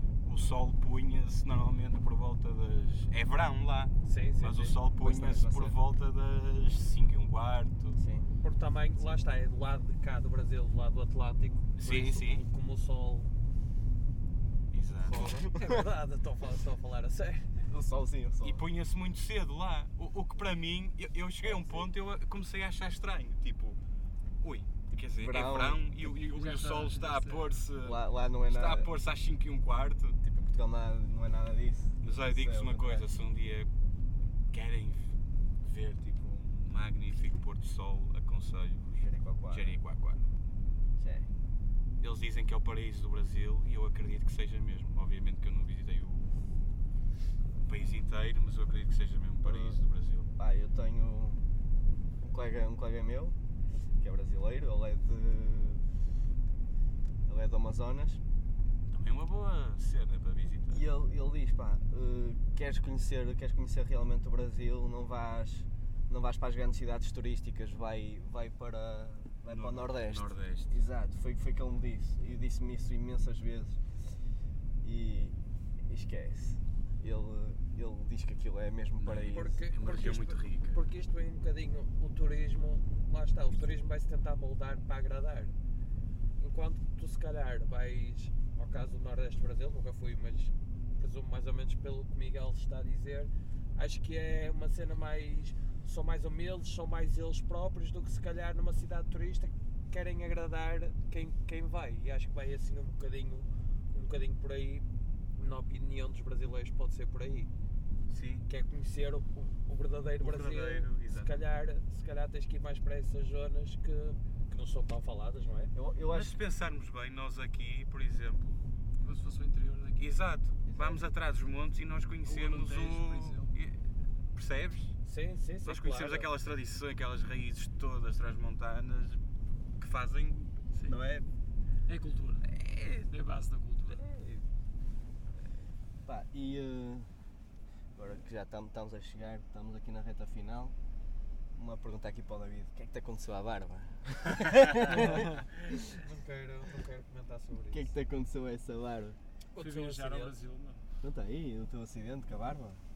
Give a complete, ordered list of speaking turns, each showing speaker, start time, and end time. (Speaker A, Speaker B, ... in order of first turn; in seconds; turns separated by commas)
Speaker A: 0.2-8.0, Speaker B: 4.0-4.7, Speaker C: 5.0-5.8, Speaker C: 8.0-8.3, Speaker B: 8.4-13.3, Speaker A: 11.8-12.4, Speaker A: 14.7-15.4, Speaker B: 15.0-17.6, Speaker C: 15.1-15.8, Speaker C: 17.7-18.6, Speaker A: 18.4-23.8, Speaker C: 21.4-21.9, Speaker A: 24.4-30.2, Speaker C: 25.0-25.8, Speaker D: 26.2-27.6, Speaker C: 27.8-28.9, Speaker C: 30.2-33.1, Speaker A: 32.0-33.7, Speaker A: 34.5-40.3, Speaker C: 39.0-39.8, Speaker C: 41.0-41.3, Speaker A: 42.0-46.8, Speaker A: 47.6-50.3, Speaker C: 49.4-49.8, Speaker C: 50.4-51.4, Speaker C: 52.2-53.4, Speaker C: 54.0-55.8, Speaker C: 57.3-58.2, Speaker A: 58.9-60.8, Speaker C: 60.7-73.8, Speaker A: 69.5-70.8, Speaker C: 74.8-79.6, Speaker A: 79.0-80.8, Speaker B: 79.3-85.5, Speaker B: 86.4-107.5, Speaker A: 108.1-108.5, Speaker B: 108.5-115.7, Speaker A: 110.2-111.3, Speaker C: 115.7-116.3, Speaker A: 116.1-118.8, Speaker D: 119.0-120.1, Speaker A: 120.0-125.0, Speaker C: 120.7-121.0, Speaker D: 122.2-123.5, Speaker B: 125.0-126.3, Speaker A: 125.6-129.2, Speaker A: 129.8-131.3, Speaker D: 131.9-132.5, Speaker A: 132.4-133.1, Speaker D: 133.1-134.0, Speaker B: 134.0-134.4, Speaker C: 136.0-137.1, Speaker C: 137.9-140.7, Speaker C: 141.5-145.9, Speaker B: 145.9-147.9, Speaker C: 147.7-149.2, Speaker B: 149.5-150.4, Speaker D: 149.6-150.8, Speaker C: 151.0-152.8